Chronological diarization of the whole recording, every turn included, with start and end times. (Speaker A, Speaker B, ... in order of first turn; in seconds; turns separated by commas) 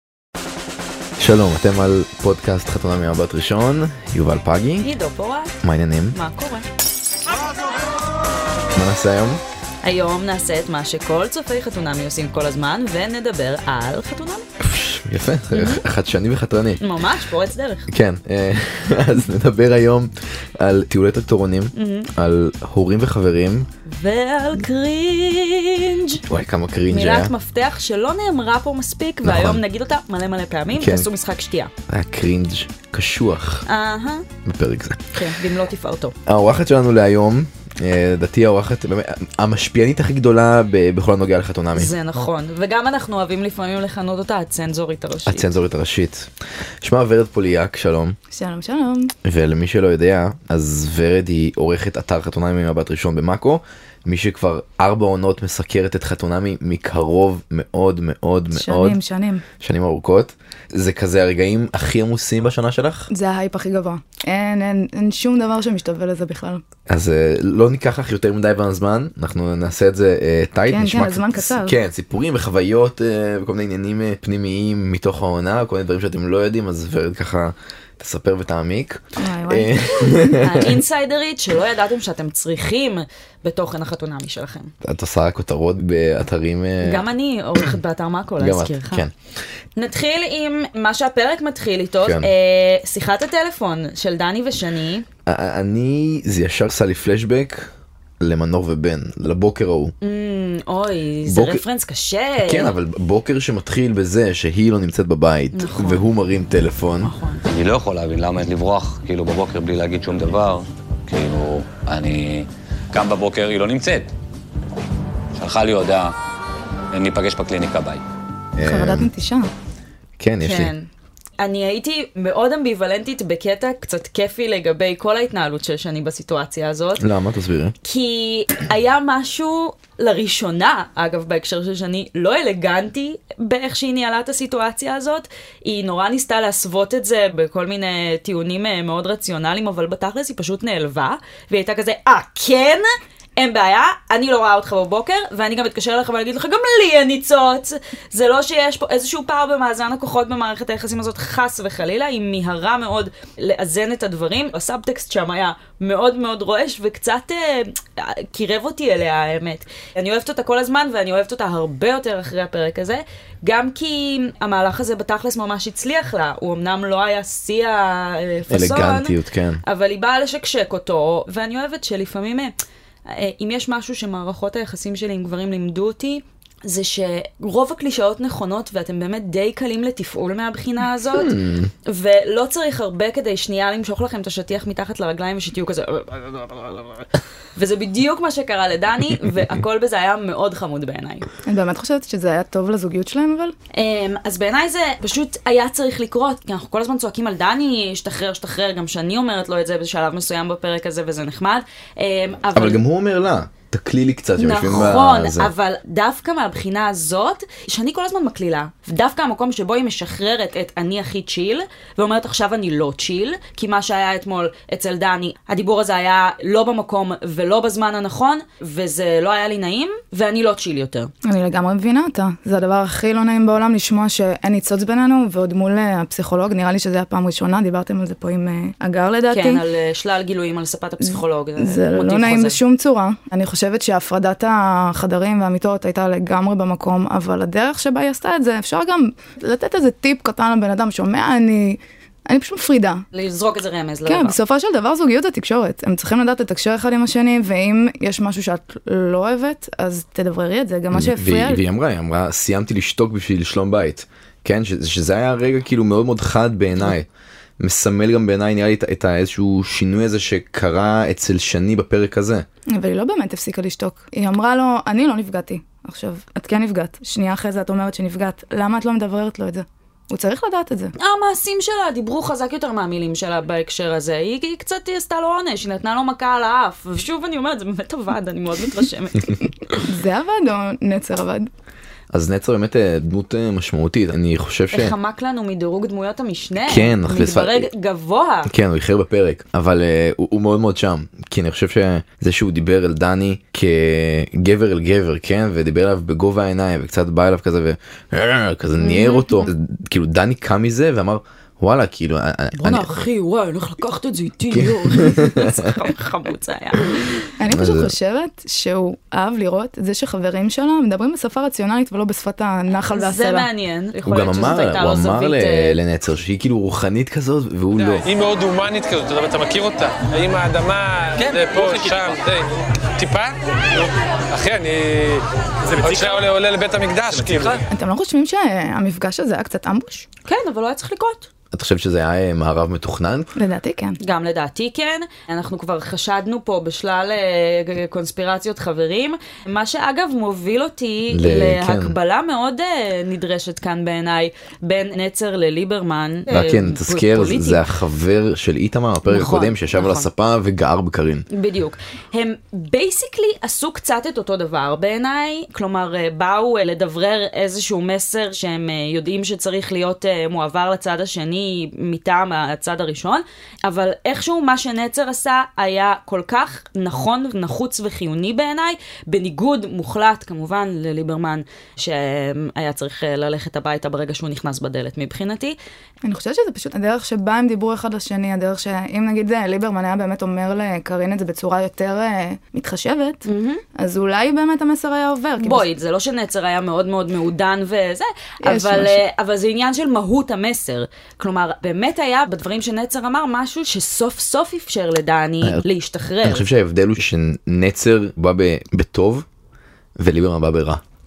Speaker A: 1.2-4.9, Speaker B: 4.8-5.6, Speaker A: 5.6-6.2, Speaker B: 6.1-6.7, Speaker A: 8.7-9.4, Speaker B: 9.8-14.5, Speaker A: 14.6-16.8, Speaker B: 15.5-15.8, Speaker B: 16.8-17.9, Speaker A: 17.9-23.7, Speaker B: 21.8-22.1, Speaker B: 23.9-26.2, Speaker A: 26.3-27.3, Speaker B: 26.9-31.7, Speaker A: 29.2-29.6, Speaker A: 30.7-31.1, Speaker A: 31.9-33.6, Speaker B: 33.7-34.2, Speaker A: 34.4-35.1, Speaker B: 35.1-36.1, Speaker A: 36.3-41.9, Speaker B: 41.7-45.5, Speaker A: 45.2-46.3, Speaker A: 46.8-48.2, Speaker C: 48.3-49.1, Speaker A: 49.2-59.0, Speaker C: 58.5-59.4, Speaker A: 59.6-63.1, Speaker C: 63.1-66.6, Speaker A: 66.9-80.8, Speaker C: 70.7-71.8, Speaker C: 79.2-79.9, Speaker B: 80.4-84.7, Speaker A: 84.8-87.0, Speaker B: 86.8-89.0, Speaker A: 88.4-89.1, Speaker B: 89.8-95.0, Speaker A: 92.0-92.3, Speaker A: 95.3-99.9, Speaker B: 100.0-102.7, Speaker A: 101.3-101.6, Speaker A: 102.4-107.1, Speaker B: 105.5-106.0, Speaker B: 107.0-107.4, Speaker D: 107.5-114.1, Speaker D: 115.3-116.1, Speaker D: 116.9-118.0, Speaker A: 118.5-119.1, Speaker C: 118.6-119.5, Speaker A: 120.2-120.7, Speaker B: 120.4-120.9, Speaker B: 121.4-127.0, Speaker A: 127.0-127.7, Speaker B: 127.8-142.8, Speaker B: 143.4-172.5, Speaker A: 168.5-169.6, Speaker B: 173.1-191.3, Speaker A: 181.3-181.7, Speaker C: 191.4-193.5, Speaker B: 193.7-202.8, Speaker A: 202.5-205.5, Speaker B: 204.4-221.1, Speaker C: 221.2-229.6, Speaker B: 229.3-232.6, Speaker C: 231.6-243.0, Speaker B: 243.1-244.4, Speaker C: 244.1-251.6, Speaker A: 250.9-257.1, Speaker A: 257.6-262.4, Speaker C: 262.7-270.9, Speaker B: 271.0-279.5, Speaker C: 279.8-281.5, Speaker A: 282.1-284.9, Speaker B: 284.7-288.5, Speaker A: 286.6-287.7, Speaker A: 288.4-302.9, Speaker B: 298.8-299.5, Speaker B: 302.6-307.3, Speaker A: 304.5-305.6, Speaker C: 307.4-313.5, Speaker A: 307.5-307.9, Speaker B: 312.9-315.8, Speaker A: 314.1-318.1, Speaker E: 317.8-327.6, Speaker C: 327.7-330.1, Speaker B: 330.2-331.3, Speaker A: 331.5-333.3, Speaker C: 333.3-334.0, Speaker B: 334.0-347.6, Speaker A: 341.1-341.9, Speaker A: 346.3-351.2, Speaker B: 349.1-350.1, Speaker B: 351.3-375.6, Speaker C: 376.0-383.2, Speaker B: 383.3-383.6, Speaker C: 383.8-385.7, Speaker B: 385.4-396.4, Speaker C: 388.4-389.0, Speaker A: 396.2-399.2, Speaker A: 400.0-400.8